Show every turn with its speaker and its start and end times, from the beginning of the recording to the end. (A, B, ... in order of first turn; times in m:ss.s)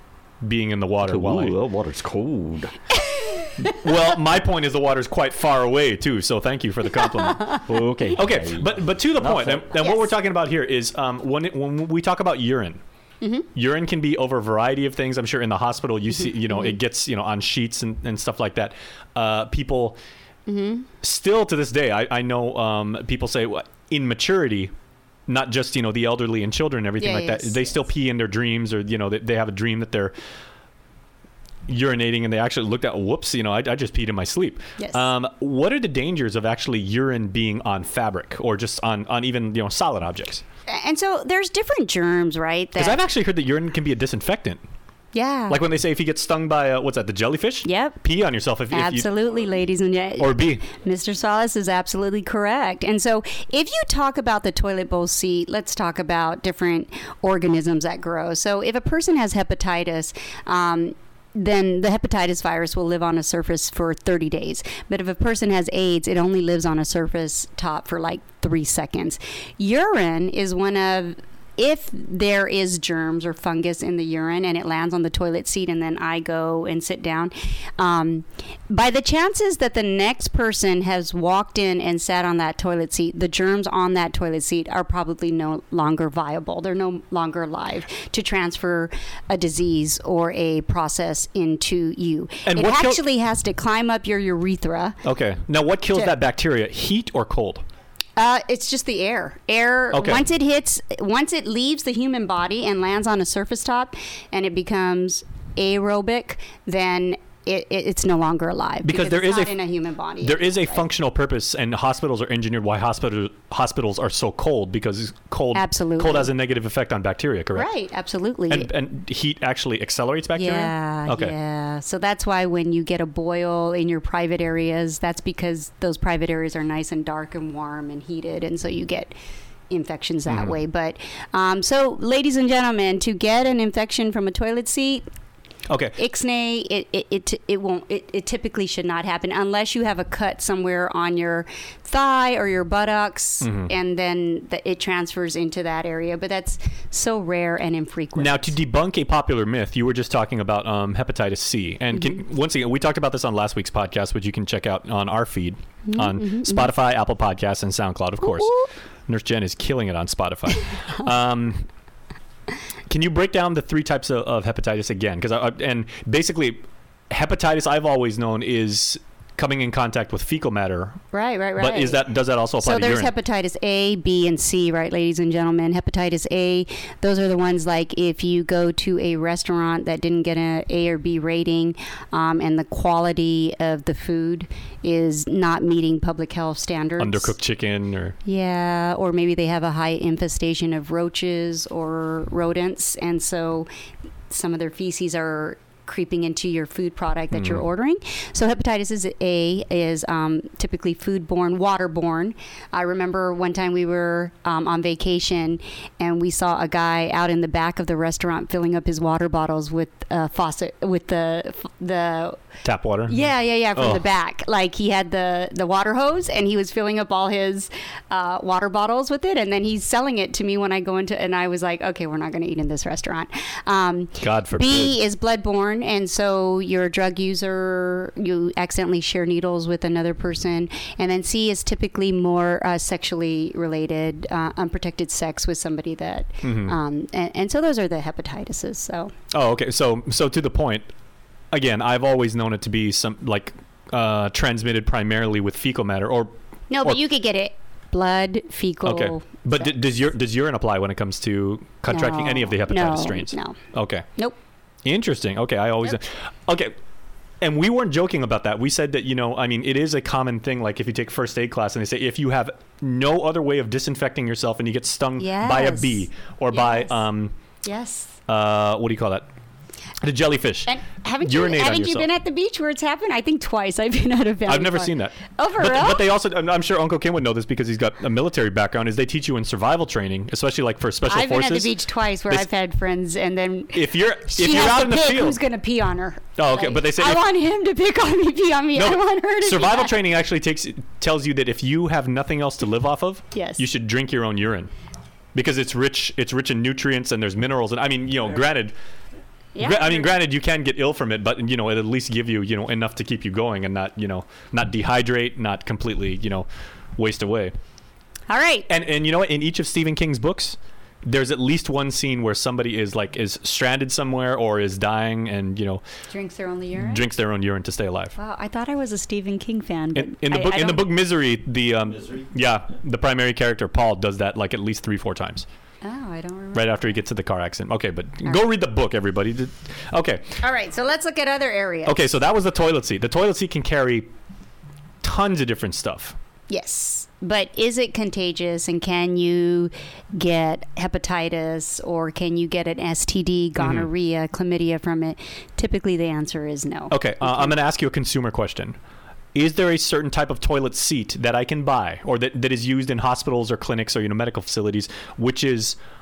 0:00.4-0:01.6 A
0:01.0-0:02.8 B
0:03.0-0:03.6 C
0:03.6-0:07.6 A
0:07.0-0:07.6 C
0:07.6-0:09.7 B
0:08.1-0:12.8 A
0:09.8-0:10.1 C
0:13.2-0:13.5 C
0:13.5-0:20.0 A
0:16.5-0:16.8 C
0:20.5-0:20.9 C
0:21.0-0:24.7 A
0:25.3-0:30.1 A
0:27.0-0:27.8 C
0:31.7-0:40.4 A
0:34.8-0:35.0 C
0:40.7-0:43.0 C
0:42.8-0:44.6 A
0:45.1-0:45.6 C
0:45.5-0:49.1 A
0:47.6-0:48.0 C
0:48.7-1:35.0 C
0:50.2-0:50.6 A
1:32.4-1:33.0 A
1:35.0-1:37.6 A
1:38.2-1:50.8 C
1:39.9-1:40.2 A
1:48.8-1:49.5 A
1:50.2-1:57.7 A
1:55.5-1:56.3 C
1:57.5-1:58.7 C
1:58.5-2:01.3 A
2:00.4-2:09.1 C
2:09.7-2:15.0 C
2:10.3-2:10.6 A
2:15.7-2:16.0 A
2:16.0-2:28.5 C
2:23.4-2:23.7 A
2:28.2-2:38.5 A
2:35.8-2:36.7 C
2:38.2-2:38.6 C
2:39.1-2:41.6 A
2:42.9-2:51.0 A
2:51.1-2:52.0 C
2:51.6-2:53.1 A
2:52.6-3:07.3 C
3:07.0-3:08.2 A
3:08.2-3:13.7 C
3:14.3-3:32.4 C
3:17.3-3:17.6 A
3:32.6-3:34.0 A
3:33.1-3:59.1 C
3:44.2-3:45.0 A
3:56.4-3:56.8 A
3:59.3-4:00.9 A
4:01.5-4:07.0 A
4:06.7-4:09.7 C
4:08.8-4:14.0 A
4:11.9-4:13.6 C
4:14.8-4:16.7 A
4:17.4-4:27.3 A
4:25.2-4:27.0 C
4:27.6-4:28.2 C
4:28.3-4:29.2 A
4:30.0-4:32.1 A
4:30.7-4:36.0 C
4:34.5-4:41.7 A
4:41.1-4:49.9 C
4:43.7-4:45.4 A
4:46.4-4:47.2 A
4:48.8-4:54.7 A
4:53.3-4:53.6 C
4:55.3-4:58.7 A
4:59.5-5:00.1 C
4:59.6-5:06.4 A
5:07.0-5:07.5 A
5:08.3-5:08.7 C
5:08.7-5:15.8 A
5:16.1-5:17.0 C
5:16.8-5:18.1 A
5:18.2-5:20.9 C
5:19.9-5:25.4 A
5:25.8-5:26.9 C
5:26.5-5:30.4 A
5:30.4-5:32.1 C
5:31.8-5:34.0 A
5:35.0-5:36.2 A
5:36.5-5:47.5 C
5:43.6-5:43.9 A
5:46.9-5:48.8 A
5:49.3-5:55.8 A